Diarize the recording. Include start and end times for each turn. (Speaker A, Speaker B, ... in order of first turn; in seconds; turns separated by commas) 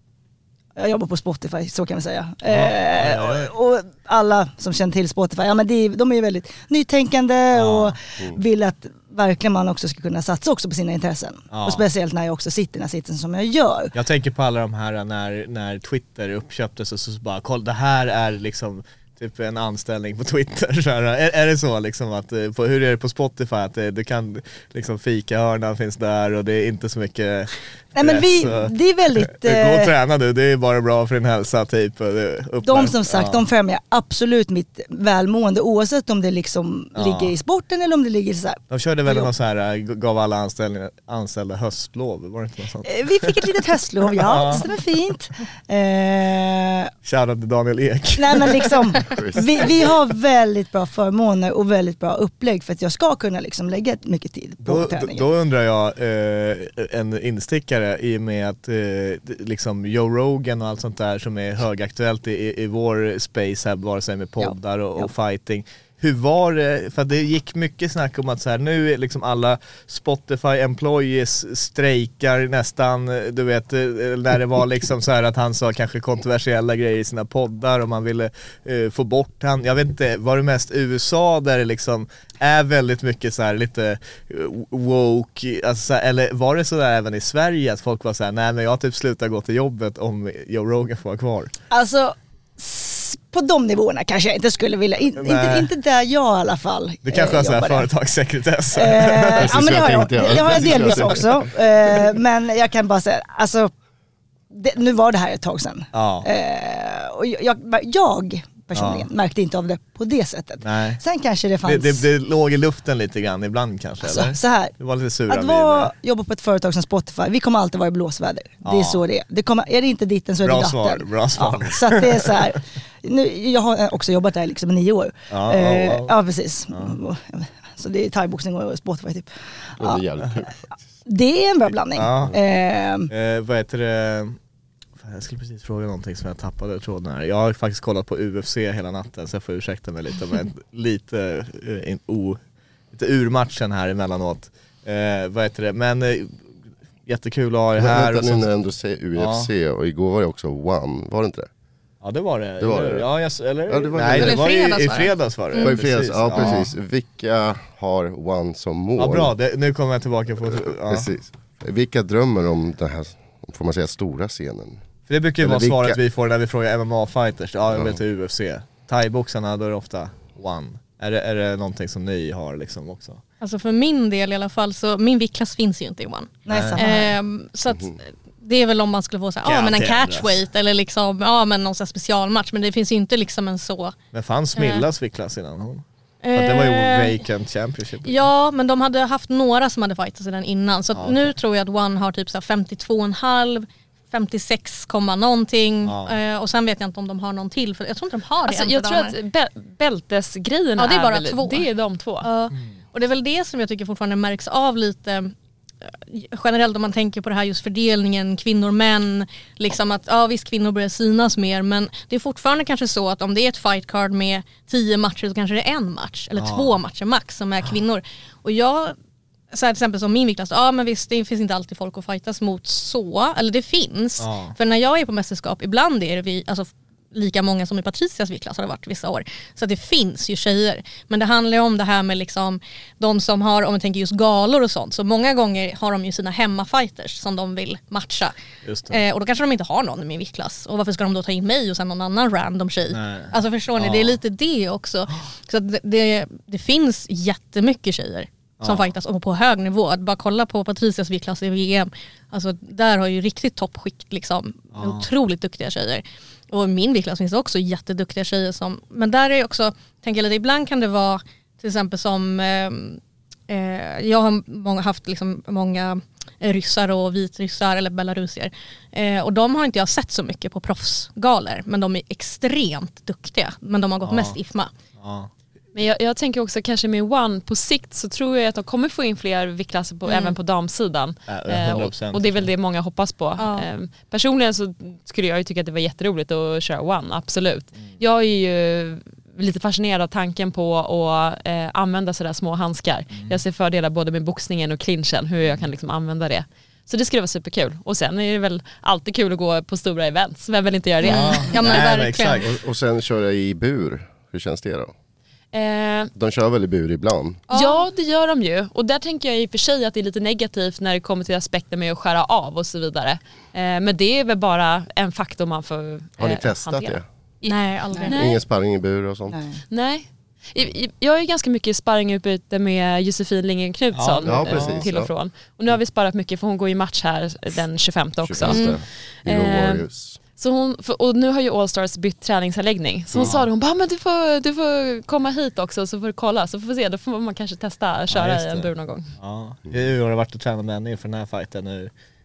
Speaker A: 0.8-13.9, Speaker B: 2.5-3.5, Speaker B: 7.5-7.9, Speaker B: 11.5-11.8, Speaker B: 13.9-33.4, Speaker A: 27.9-29.9, Speaker A: 32.6-39.3, Speaker B: 37.0-37.3, Speaker B: 38.7-43.5, Speaker A: 42.8-46.9, Speaker B: 44.2-44.7, Speaker B: 47.0-49.0, Speaker A: 48.2-55.2, Speaker C: 49.0-49.4, Speaker B: 49.6-49.9, Speaker B: 54.6-91.5, Speaker A: 64.4-65.1, Speaker A: 91.7-97.9, Speaker B: 95.2-95.7, Speaker B: 97.0-101.3, Speaker A: 98.7-103.7, Speaker C: 99.4-101.5, Speaker A: 104.5-112.1, Speaker B: 105.9-106.3, Speaker B: 108.7-109.1, Speaker B: 110.6-111.0, Speaker B: 111.6-115.9, Speaker A: 114.0-114.7, Speaker A: 115.3-130.0, Speaker B: 118.6-119.0, Speaker B: 120.4-122.6, Speaker B: 125.3-126.1, Speaker B: 126.7-127.0, Speaker C: 129.8-130.7, Speaker A: 131.1-133.1, Speaker B: 132.0-132.4, Speaker B: 133.1-134.4, Speaker B: 135.0-142.4, Speaker B: 142.9-146.4, Speaker B: 147.1-148.5, Speaker C: 147.8-151.5, Speaker B: 149.2-149.5, Speaker B: 152.0-156.7, Speaker C: 152.6-153.1, Speaker C: 153.7-154.4, Speaker D: 154.2-155.8, Speaker C: 155.6-159.3, Speaker B: 159.0-161.1, Speaker C: 160.5-164.8, Speaker B: 165.1-173.2, Speaker C: 165.4-166.0, Speaker C: 167.7-168.0, Speaker D: 173.4-183.9, Speaker A: 176.5-177.1, Speaker B: 176.5-176.8, Speaker B: 179.4-180.3, Speaker B: 184.1-188.3, Speaker D: 184.6-184.8, Speaker D: 186.2-187.2, Speaker D: 188.1-199.2, Speaker B: 190.9-191.2, Speaker B: 195.8-196.2, Speaker E: 198.4-202.3, Speaker D: 200.8-201.7, Speaker D: 202.2-205.3, Speaker D: 205.8-219.0, Speaker B: 216.4-216.8, Speaker D: 219.5-238.3, Speaker B: 224.2-224.6, Speaker B: 238.6-239.0, Speaker D: 238.9-274.7, Speaker B: 242.9-244.2, Speaker B: 248.6-248.9, Speaker B: 254.8-255.1, Speaker B: 274.1-274.4, Speaker B: 275.0-275.3, Speaker E: 275.7-301.5, Speaker D: 280.1-280.4, Speaker B: 281.3-282.5, Speaker D: 283.4-283.7, Speaker D: 301.0-302.5, Speaker B: 301.0-302.5, Speaker C: 302.5-304.9, Speaker E: 305.5-306.1, Speaker C: 306.2-307.4, Speaker D: 307.5-307.9, Speaker E: 307.5-317.6, Speaker C: 316.2-317.0, Speaker D: 317.4-318.3, Speaker E: 318.1-318.4, Speaker C: 318.1-319.4, Speaker A: 319.3-319.6, Speaker E: 319.7-329.9, Speaker B: 323.9-324.9, Speaker C: 324.2-325.1, Speaker C: 328.2-330.2, Speaker D: 328.5-328.8, Speaker E: 330.4-339.1, Speaker B: 333.1-333.5, Speaker B: 338.1-341.9